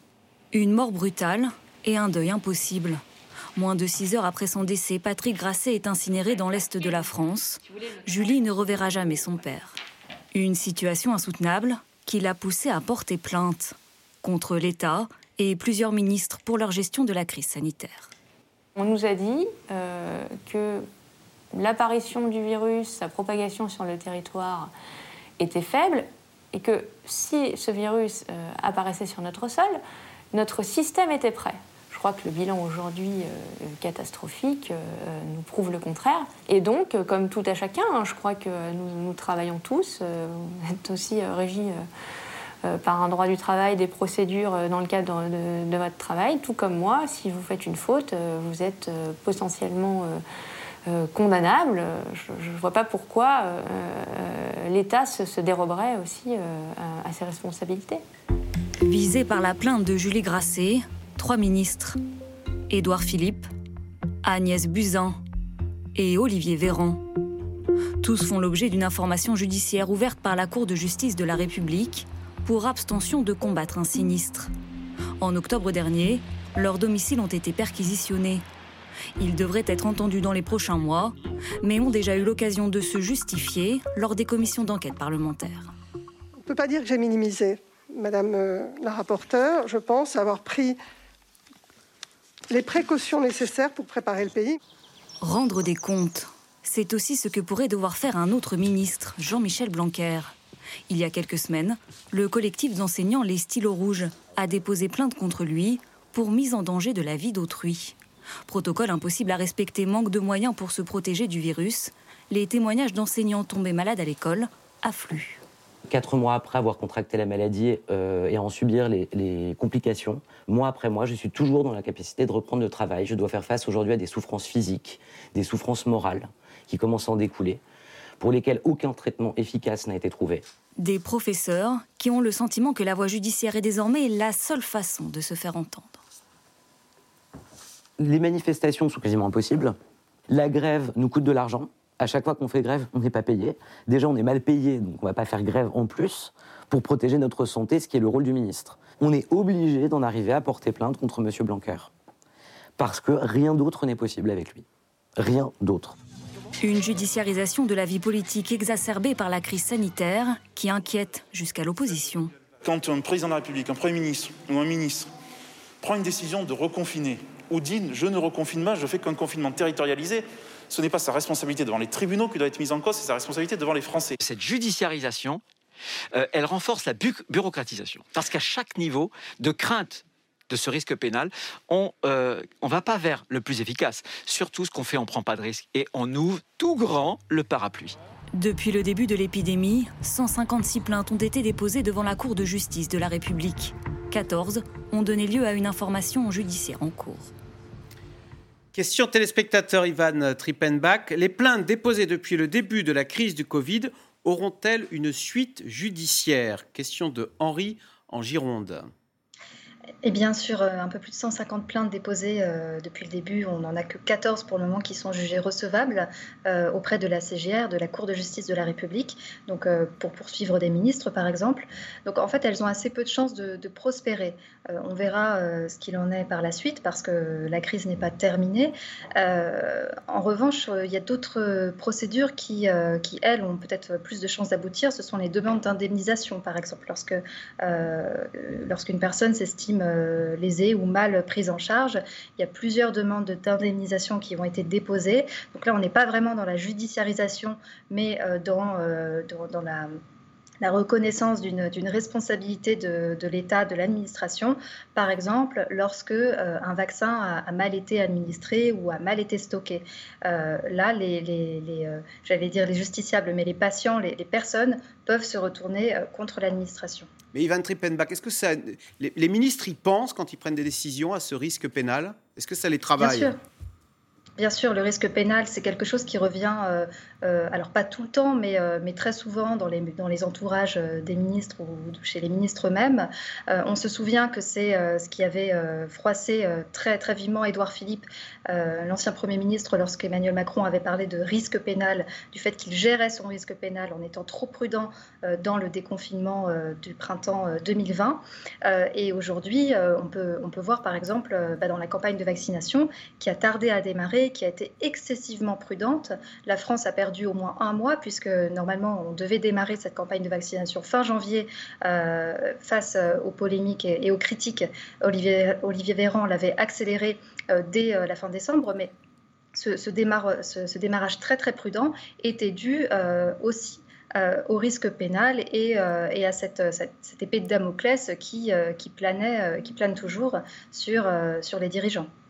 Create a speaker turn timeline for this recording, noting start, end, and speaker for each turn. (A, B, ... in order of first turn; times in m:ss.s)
0:00.5-0:03.0 A
0:03.6-0:09.8 A
0:10.3-0:18.1 A
0:18.7-0:20.9 B
0:21.5-0:24.7 B
0:25.4-0:29.8 B
0:30.3-0:41.9 B
0:42.6-0:50.2 B
0:50.9-0:58.0 B
0:58.8-1:02.0 A
1:02.7-1:03.5 A
1:04.2-1:05.2 A
1:06.0-1:07.0 A
1:08.0-1:14.5 A
1:15.2-1:18.4 A
1:19.2-1:25.7 A
1:26.4-1:30.8 C
1:32.5-1:34.6 C
1:35.2-1:40.3 A
1:40.9-1:48.0 A
1:48.5-1:55.4 A
1:55.9-2:07.6 D
2:08.2-2:10.4 D
2:10.8-2:16.0 A
2:18.0-2:19.8 D
2:20.3-2:31.9 D
2:32.8-2:34.6 D
2:35.2-2:36.0 D
2:36.6-2:42.3 A
2:42.6-2:45.0 E
2:45.8-2:54.1 E
2:54.2-2:55.4 F
2:56.1-3:08.0 F
3:08.3-3:17.3 A
3:18.7-3:28.9 G
3:30.0-4:09.9 H
4:10.6-4:27.1 H
4:27.3-4:33.3 G
4:33.0-4:33.4 H
4:34.4-5:18.9 H
5:19.6-5:32.1 H